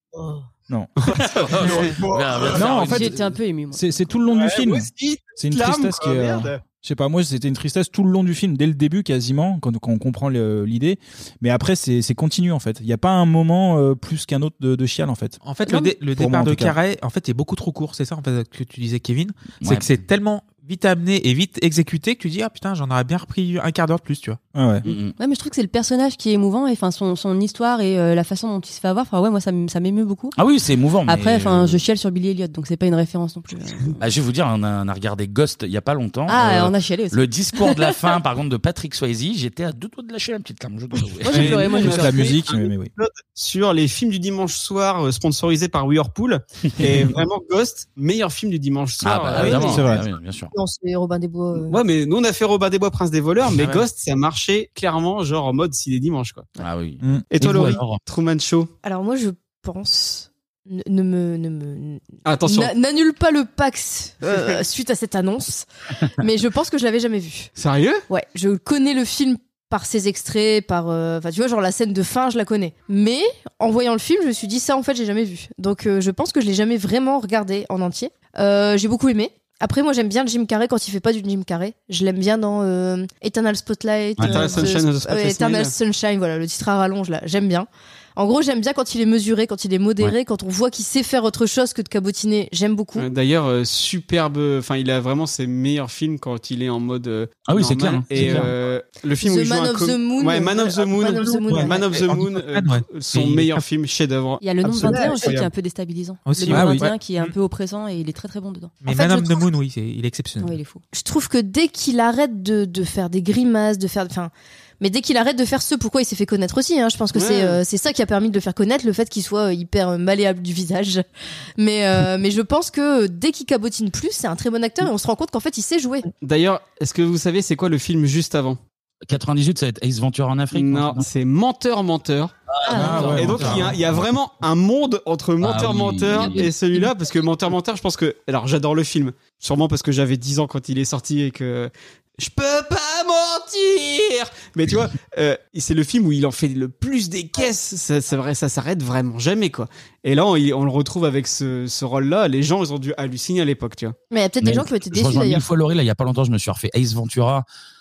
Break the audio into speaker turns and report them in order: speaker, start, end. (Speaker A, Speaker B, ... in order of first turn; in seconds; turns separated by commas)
Speaker A: 1.1-2.5, Speaker B: 1.3-3.2, Speaker C: 2.5-15.4, Speaker D: 2.6-3.9, Speaker A: 4.3-6.5, Speaker E: 15.4-24.4, Speaker D: 15.7-15.9, Speaker C: 16.1-16.8, Speaker B: 19.6-20.0, Speaker C: 24.5-24.8, Speaker B: 24.8-25.1, Speaker D: 25.2-30.4, Speaker B: 30.4-31.8, Speaker D: 31.1-34.0, Speaker B: 34.0-41.7, Speaker D: 36.3-37.9, Speaker D: 41.2-42.3, Speaker A: 41.3-49.9, Speaker C: 41.3-42.9, Speaker B: 49.0-50.5, Speaker C: 49.3-50.0, Speaker F: 50.5-51.8, Speaker A: 51.6-56.5, Speaker E: 53.6-53.8, Speaker B: 56.6-58.0, Speaker A: 57.3-58.7, Speaker F: 58.8-67.5, Speaker A: 62.2-62.7, Speaker A: 67.6-68.0, Speaker F: 68.1-93.1, Speaker B: 84.2-84.7, Speaker A: 84.2-85.7, Speaker A: 93.0-105.5, Speaker B: 97.5-98.5, Speaker E: 98.1-98.5, Speaker F: 99.2-101.9, Speaker E: 101.3-103.6, Speaker D: 104.4-108.8, Speaker E: 106.2-107.3, Speaker C: 106.5-106.9, Speaker E: 108.8-110.6, Speaker F: 108.9-109.5, Speaker D: 110.4-110.8, Speaker F: 110.9-121.0, Speaker A: 117.1-117.6, Speaker F: 121.6-126.1, Speaker A: 126.2-128.6, Speaker B: 129.1-131.1, Speaker A: 130.5-132.3, Speaker B: 132.5-133.7, Speaker D: 132.7-133.1, Speaker C: 132.7-133.8, Speaker E: 133.0-133.6, Speaker A: 133.1-153.9, Speaker B: 135.4-136.5, Speaker F: 154.1-155.4, Speaker B: 154.4-157.4